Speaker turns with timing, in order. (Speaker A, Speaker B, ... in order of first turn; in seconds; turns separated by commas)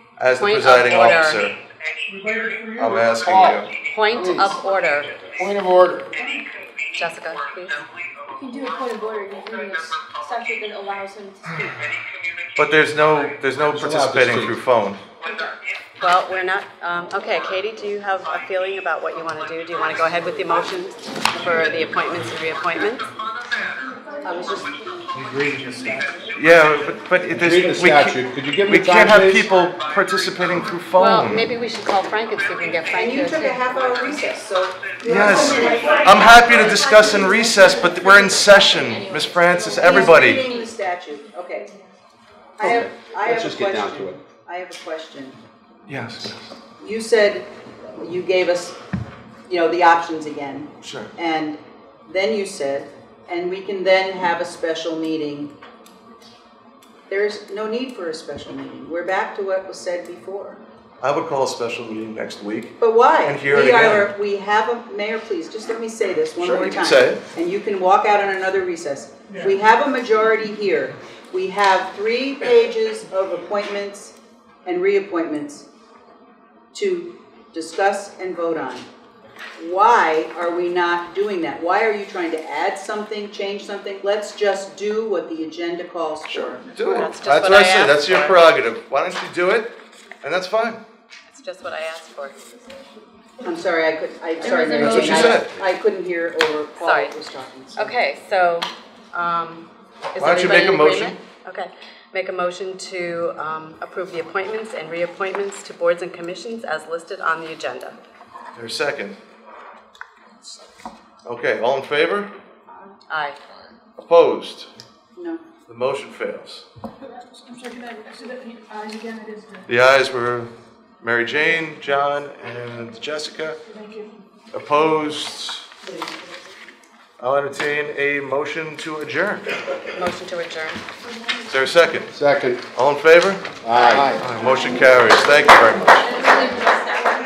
Speaker A: 0.2-1.6, Speaker B: 0.3-1.4, Speaker C: 2.1-2.9, Speaker A: 2.8-3.7, Speaker D: 3.2-3.6, Speaker B: 3.9-5.3, Speaker D: 4.2-4.6, Speaker D: 5.4-6.1, Speaker B: 7.0-7.8, Speaker E: 8.3-11.8, Speaker A: 12.6-15.0, Speaker D: 13.7-14.6, Speaker B: 16.0-23.1, Speaker F: 24.2-24.7, Speaker D: 25.1-26.1, Speaker A: 26.4-31.5, Speaker D: 27.3-29.5, Speaker B: 31.0-34.0, Speaker F: 32.9-36.3, Speaker A: 35.0-40.5, Speaker E: 38.0-40.7, Speaker F: 39.8-41.7, Speaker F: 42.6-45.4, Speaker D: 42.6-44.2, Speaker A: 45.9-46.5, Speaker F: 46.8-48.8, Speaker F: 49.5-55.5, Speaker A: 50.8-51.1, Speaker F: 57.1-60.6, Speaker A: 61.0-64.1, Speaker F: 62.8-75.7, Speaker A: 66.4-67.2, Speaker F: 76.7-78.9, Speaker F: 79.6-86.6, Speaker A: 86.3-90.8, Speaker B: 87.0-88.4, Speaker B: 91.3-92.4, Speaker F: 93.4-97.9, Speaker E: 94.4-95.4, Speaker A: 94.9-95.5, Speaker B: 96.8-97.2, Speaker B: 97.8-108.0, Speaker A: 100.2-101.2, Speaker A: 108.5-109.2, Speaker A: 111.2-112.3, Speaker B: 113.1-113.4, Speaker A: 114.0-114.7, Speaker F: 115.2-115.4, Speaker A: 115.7-116.7, Speaker C: 117.5-119.6, Speaker A: 119.7-123.6, Speaker C: 123.7-124.1, Speaker A: 124.5-125.7, Speaker A: 127.2-129.5, Speaker B: 129.9-130.8, Speaker A: 131.5-132.1, Speaker D: 132.1-132.7, Speaker A: 132.8-136.1, Speaker D: 133.6-134.2, Speaker B: 133.7-134.2